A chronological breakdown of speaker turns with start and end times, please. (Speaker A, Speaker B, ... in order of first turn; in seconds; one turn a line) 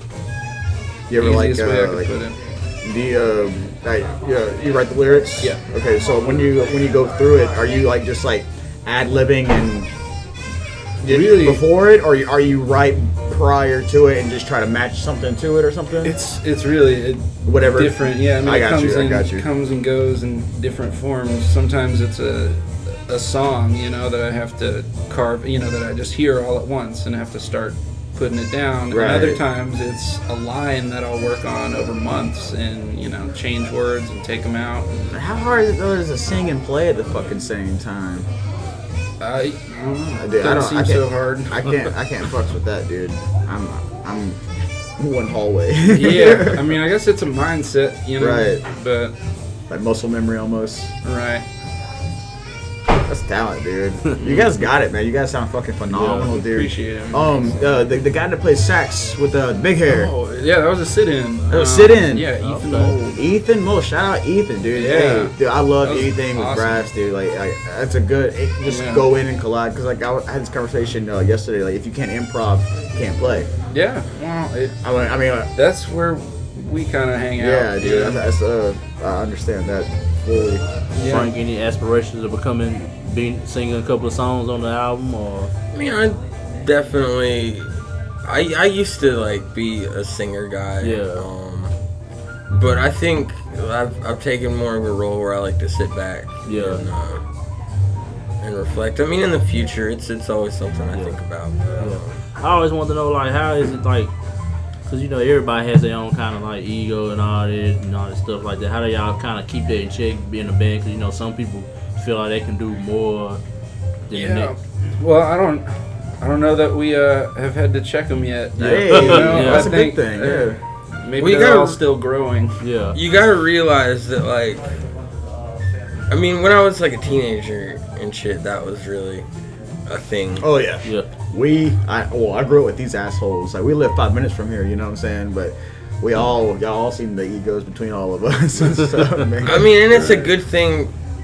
Speaker A: 1.1-2.1
Speaker B: 1.2-2.4
Speaker A: 2.8-9.9
Speaker A: 11.0-16.1
Speaker B: 11.1-11.6
Speaker B: 16.0-35.1
Speaker A: 17.5-19.5
Speaker A: 28.9-29.4
Speaker A: 35.1-38.3
Speaker B: 39.2-41.7
Speaker A: 40.2-44.4
Speaker A: 45.0-46.8
Speaker B: 45.9-49.2
Speaker A: 48.2-48.6
Speaker A: 49.7-50.9
Speaker B: 51.0-51.5
Speaker A: 52.9-60.1
Speaker C: 55.9-56.3
Speaker B: 56.0-57.7
Speaker B: 59.9-63.2
Speaker A: 61.5-62.3
Speaker C: 62.4-63.0
Speaker A: 63.0-73.5
Speaker B: 64.8-66.9
Speaker B: 68.7-69.1
Speaker B: 73.7-74.8
Speaker A: 74.8-75.5
Speaker B: 75.5-78.3
Speaker A: 77.4-80.7
Speaker B: 80.9-81.3
Speaker C: 81.0-85.5
Speaker D: 85.7-87.7
Speaker D: 88.2-91.7
Speaker C: 90.8-91.3
Speaker D: 92.5-97.2
Speaker C: 96.5-96.8
Speaker D: 98.4-102.2
Speaker C: 100.9-101.2
Speaker C: 101.8-104.1
Speaker C: 104.9-113.4
Speaker C: 114.1-114.5
Speaker B: 114.1-122.6
Speaker A: 118.6-120.6
Speaker C: 118.6-119.7
Speaker D: 121.2-121.8
Speaker C: 122.6-123.0
Speaker D: 122.9-124.8
Speaker D: 126.1-129.3
Speaker D: 129.9-130.5
Speaker A: 130.4-140.2
Speaker D: 139.4-140.9
Speaker B: 139.9-140.3